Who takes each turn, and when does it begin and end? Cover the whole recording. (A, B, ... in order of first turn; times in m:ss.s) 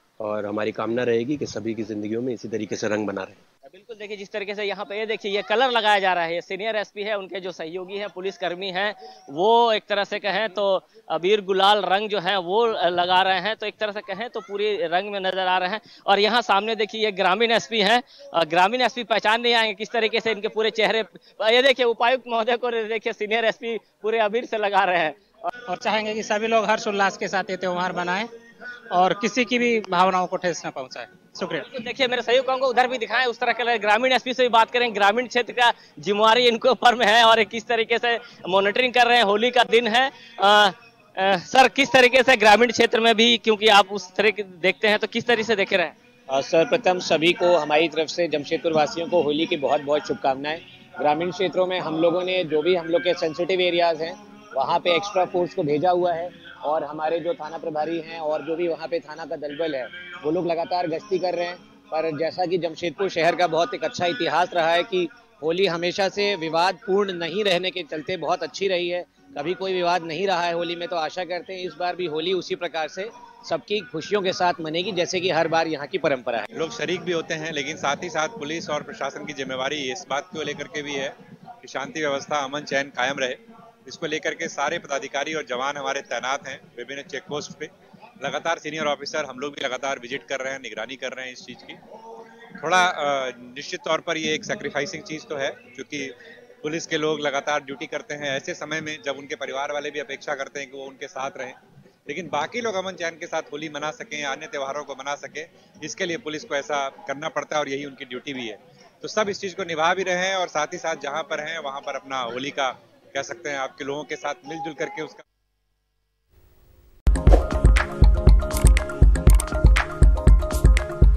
0:00.2-0:03.4 A
0:03.7-0:25.5 B
0:25.7-0:28.3 C
0:28.9-0:31.7 C
0:31.7-0:45.9 B
0:46.3-1:16.4 D
1:16.5-1:31.8 E
1:32.6-1:55.2 E